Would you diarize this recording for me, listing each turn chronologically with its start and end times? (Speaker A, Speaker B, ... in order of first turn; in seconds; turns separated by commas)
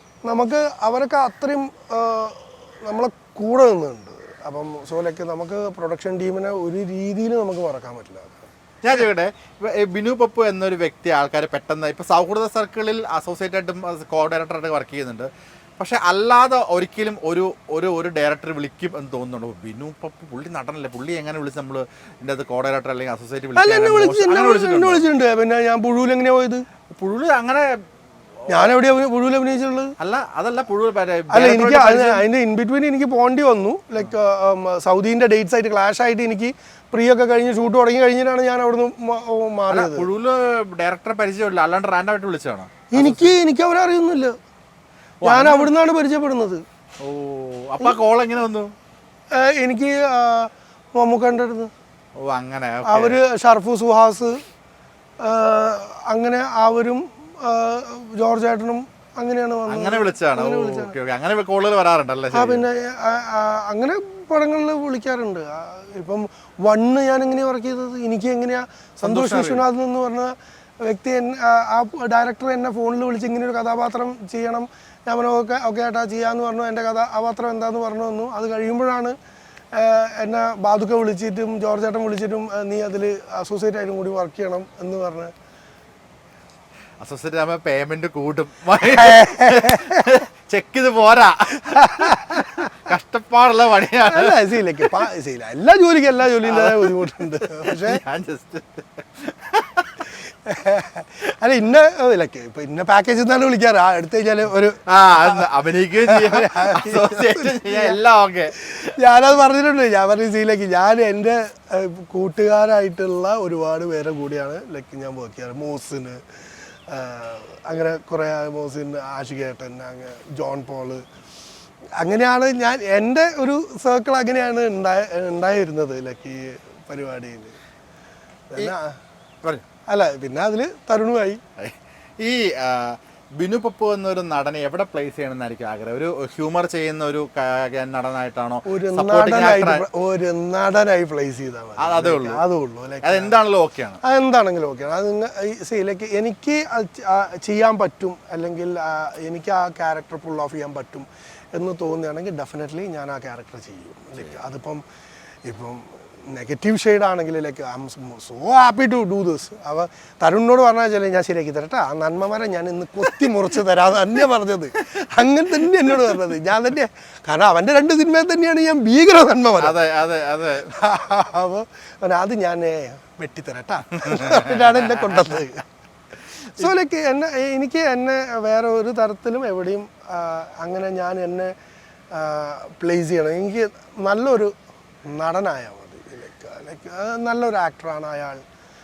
Speaker A: 0.2-8.4, Speaker B: 8.8-25.0, Speaker A: 23.6-26.6, Speaker B: 26.9-27.8, Speaker A: 28.5-29.9, Speaker B: 30.0-32.2, Speaker A: 31.3-40.1, Speaker B: 39.7-43.4, Speaker A: 42.9-44.4, Speaker B: 45.2-45.7, Speaker A: 45.2-46.6, Speaker B: 47.0-48.7, Speaker A: 49.3-51.7, Speaker B: 52.2-53.2, Speaker A: 52.9-54.4, Speaker A: 55.2-60.9, Speaker B: 59.7-62.6, Speaker A: 62.3-79.2, Speaker B: 69.0-69.7, Speaker A: 79.7-85.3, Speaker B: 87.0-95.0, Speaker A: 88.8-90.1, Speaker A: 91.7-92.7, Speaker A: 94.0-98.0, Speaker B: 96.4-100.1, Speaker A: 100.3-105.5, Speaker B: 104.9-108.9, Speaker A: 106.0-108.0, Speaker A: 108.6-121.0, Speaker A: 122.0-127.6, Speaker A: 128.5-129.0, Speaker A: 129.9-131.4, Speaker B: 131.6-139.8, Speaker A: 138.7-143.3, Speaker B: 141.8-142.4, Speaker B: 143.0-144.0, Speaker A: 144.0-154.8, Speaker B: 154.2-154.4, Speaker A: 155.4-169.8, Speaker B: 165.7-166.2, Speaker B: 169.6-170.8, Speaker A: 170.6-175.7, Speaker B: 174.0-175.3, Speaker A: 176.5-181.5, Speaker A: 182.1-188.4